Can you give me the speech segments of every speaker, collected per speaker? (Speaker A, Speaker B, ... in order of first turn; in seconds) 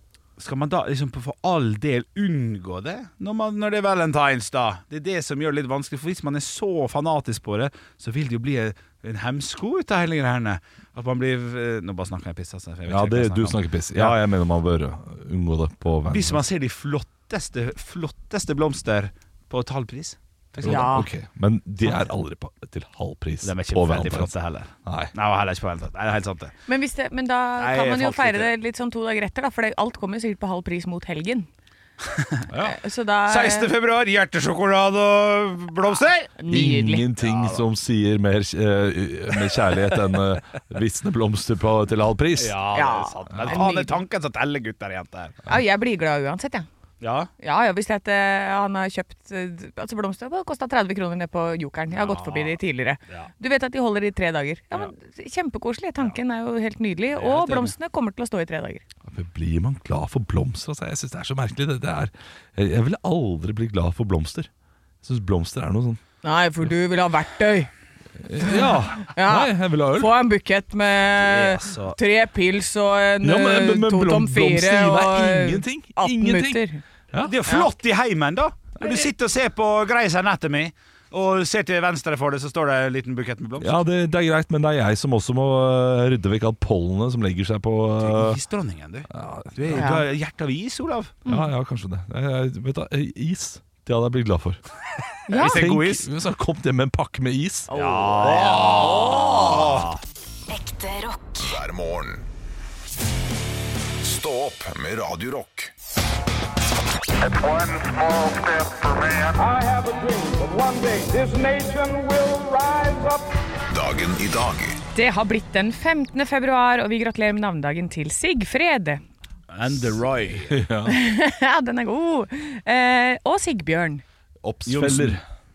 Speaker A: 0.4-14.2, 16.1-21.1, 21.8-22.1, 23.4-26.5, 27.6-28.5, 32.1-32.8, 33.3-36.4, 37.2-37.6, 42.4-45.4, 47.0-47.3, 51.9-52.6, 57.1-57.7, 71.1-72.0, 77.1-83.8, 88.0-91.2, 95.3-96.0, 97.7-100.0, 119.5-120.6, 124.7-125.2
Speaker B: 12.8-16.4, 20.6-24.3, 24.9-25.1, 36.5-42.6, 59.1-64.5, 65.0-66.0, 68.2-70.1, 73.2-77.3, 83.6-88.4, 89.1-89.9, 91.2-94.6, 95.3-97.7, 98.2-99.9, 119.8-121.0, 124.4-125.2
Speaker C: 20.6-21.1, 26.7-31.5, 32.6-33.7, 36.4-37.1, 42.7-44.0, 45.5-46.7, 47.4-58.8, 66.2-67.7, 68.5-76.8, 89.7-90.0, 95.3-95.7, 97.7-99.4, 114.9-119.0, 120.8-124.0
Speaker D: 100.5-102.3, 104.0-105.7, 113.7-114.8
Speaker E: 107.2-113.2